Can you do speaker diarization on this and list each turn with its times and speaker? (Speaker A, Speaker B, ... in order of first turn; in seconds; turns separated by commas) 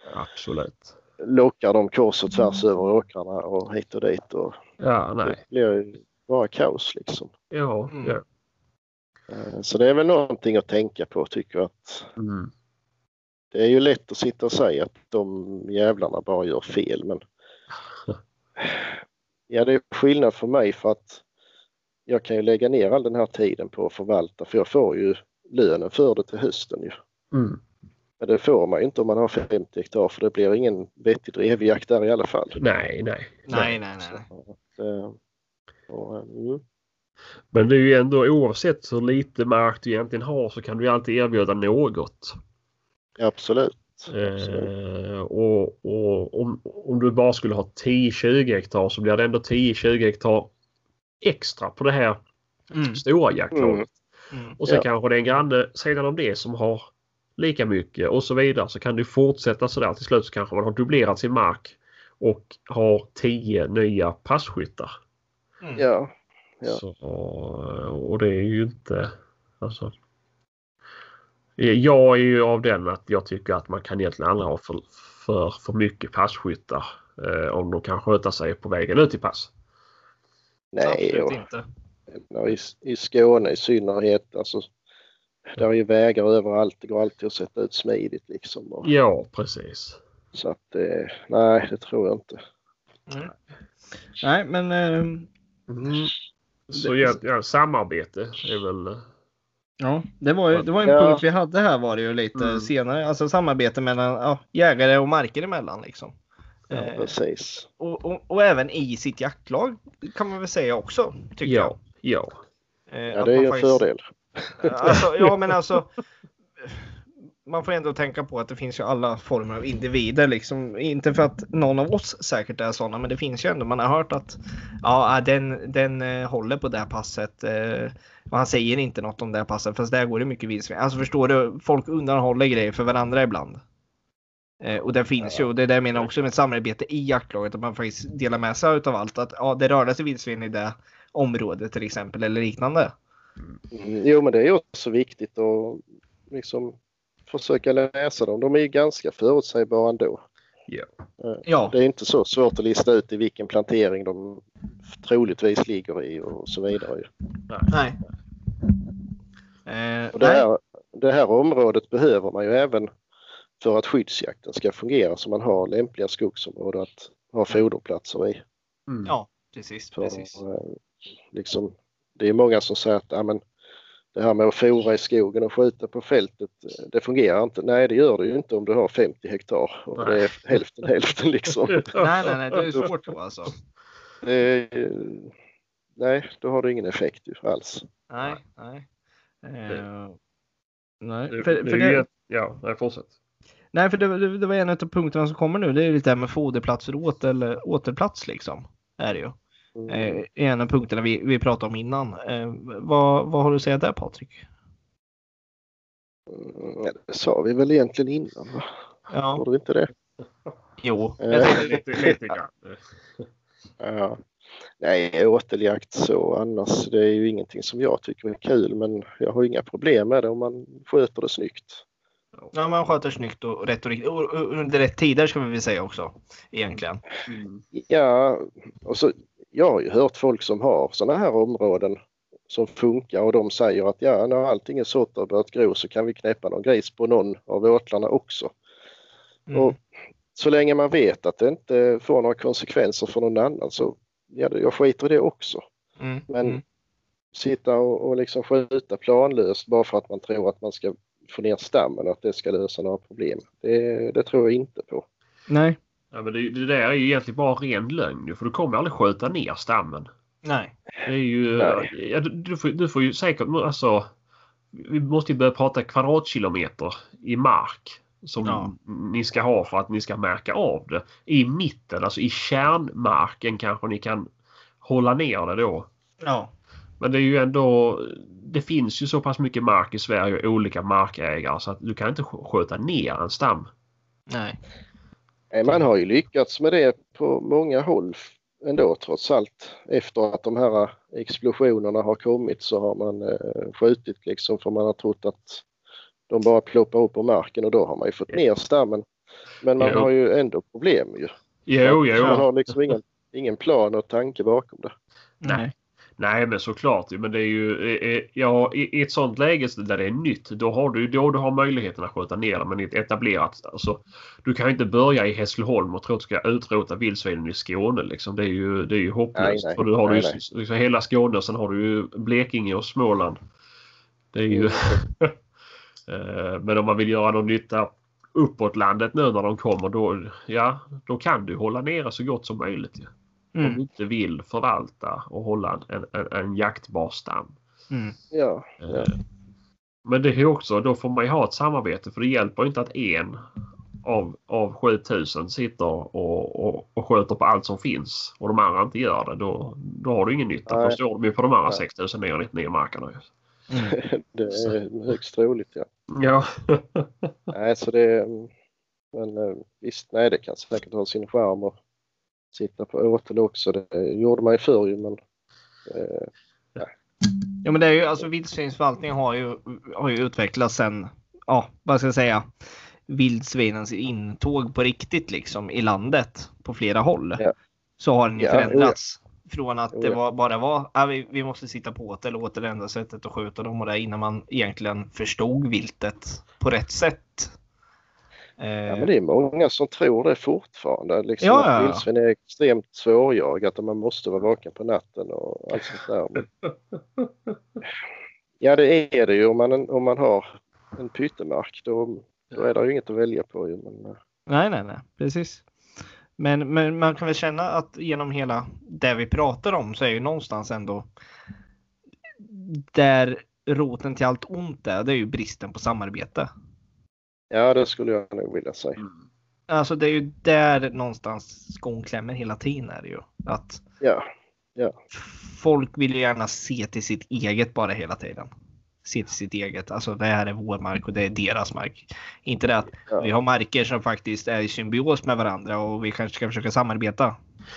Speaker A: 0.1-0.9, Speaker B: 1.2-4.6, Speaker A: 4.8-5.4, Speaker B: 5.2-7.3, Speaker A: 7.5-8.2, Speaker C: 7.9-8.2, Speaker B: 9.3-12.1, Speaker A: 12.2-12.5, Speaker B: 13.5-17.2, Speaker B: 18.6-19.0, Speaker B: 19.5-21.2, Speaker B: 22.1-26.9, Speaker A: 27.3-27.6, Speaker B: 28.2-32.6, Speaker A: 32.6-33.7, Speaker C: 33.5-34.3, Speaker B: 34.0-35.2, Speaker B: 35.9-36.6, Speaker A: 37.5-42.4, Speaker B: 43.2-44.7, Speaker A: 44.1-50.5, Speaker A: 51.2-52.2, Speaker C: 52.7-53.0, Speaker A: 52.9-53.9, Speaker B: 53.5-53.9, Speaker C: 54.3-54.6, Speaker A: 54.6-64.9, Speaker B: 65.8-66.1, Speaker A: 66.7-69.9, Speaker A: 71.6-79.5, Speaker B: 80.7-81.4, Speaker C: 80.8-81.7, Speaker B: 82.1-84.7, Speaker B: 85.5-88.9, Speaker A: 88.8-90.0, Speaker B: 90.3-92.4, Speaker C: 94.2-95.3, Speaker A: 95.7-96.1, Speaker A: 96.7-99.1, Speaker C: 96.8-97.1, Speaker C: 99.8-106.2, Speaker B: 100.8-101.2, Speaker A: 102.3-102.7, Speaker C: 106.7-107.2, Speaker B: 106.7-107.7, Speaker C: 107.8-111.8, Speaker A: 111.5-112.4, Speaker C: 112.9-113.9, Speaker B: 113.1-114.0, Speaker C: 114.6-115.9, Speaker C: 116.6-133.6, Speaker C: 134.6-142.9, Speaker B: 135.2-135.5, Speaker B: 143.7-146.8, Speaker B: 147.3-150.2, Speaker B: 151.2-157.1, Speaker C: 151.5-151.8, Speaker C: 157.7-158.0, Speaker C: 159.7-160.5, Speaker B: 160.2-162.9, Speaker B: 163.6-168.4, Speaker A: 168.9-169.1, Speaker C: 169.1-170.4, Speaker B: 169.9-170.8, Speaker B: 171.3-173.4, Speaker B: 174.2-181.9, Speaker A: 180.0-180.6, Speaker A: 181.7-182.1, Speaker C: 181.9-183.5, Speaker B: 184.2-185.3, Speaker B: 186.0-187.9, Speaker C: 188.1-188.9, Speaker C: 189.4-190.2, Speaker C: 191.0-192.1, Speaker A: 191.3-193.1, Speaker C: 193.7-199.4, Speaker B: 199.8-200.2, Speaker C: 199.9-204.5, Speaker B: 206.3-208.7, Speaker C: 209.1-209.4, Speaker B: 209.4-209.9, Speaker C: 210.8-212.3, Speaker B: 211.2-211.8, Speaker A: 211.3-213.3, Speaker B: 213.8-214.2, Speaker B: 214.8-221.8, Speaker C: 222.5-227.0, Speaker A: 227.3-227.6, Speaker B: 227.7-232.0, Speaker B: 232.5-238.5, Speaker C: 239.5-239.8, Speaker B: 240.3-245.6, Speaker C: 246.0-246.6, Speaker B: 246.3-246.6, Speaker B: 247.3-255.1, Speaker C: 255.5-255.8, Speaker A: 256.1-260.1, Speaker C: 260.4-260.7, Speaker A: 261.0-264.1, Speaker B: 261.6-261.9, Speaker A: 264.7-274.3, Speaker C: 268.4-268.7, Speaker A: 274.8-275.9, Speaker C: 276.2-276.5, Speaker A: 277.0-283.7, Speaker C: 284.3-284.6, Speaker B: 285.5-295.6, Speaker B: 296.3-299.1, Speaker B: 299.6-301.3, Speaker A: 299.8-300.1, Speaker A: 301.7-302.5, Speaker B: 301.8-304.9, Speaker C: 302.2-302.4, Speaker C: 305.4-305.7, Speaker A: 306.2-323.4, Speaker B: 319.4-320.4, Speaker A: 324.3-325.3, Speaker B: 324.5-325.0, Speaker A: 326.1-333.1, Speaker C: 333.6-333.8, Speaker A: 333.6-337.6, Speaker B: 338.3-339.1, Speaker A: 338.8-339.2, Speaker A: 340.1-343.4, Speaker A: 344.0-353.3, Speaker B: 350.7-351.0, Speaker C: 353.7-354.0, Speaker B: 353.9-355.9, Speaker A: 356.1-357.3, Speaker B: 357.5-358.5, Speaker B: 359.1-361.8, Speaker B: 362.5-365.2, Speaker B: 365.9-366.9, Speaker C: 367.6-372.5, Speaker C: 373.1-377.4, Speaker C: 378.0-387.5, Speaker B: 378.4-379.0, Speaker B: 379.9-380.2, Speaker C: 388.6-389.1, Speaker B: 388.9-396.4, Speaker C: 391.4-392.1, Speaker A: 396.4-397.6, Speaker B: 398.6-404.2, Speaker C: 404.5-405.6, Speaker C: 406.4-411.1, Speaker C: 412.4-416.5, Speaker B: 417.5-419.0, Speaker C: 419.7-423.8, Speaker B: 424.0-424.9, Speaker C: 425.1-428.5, Speaker C: 429.0-437.4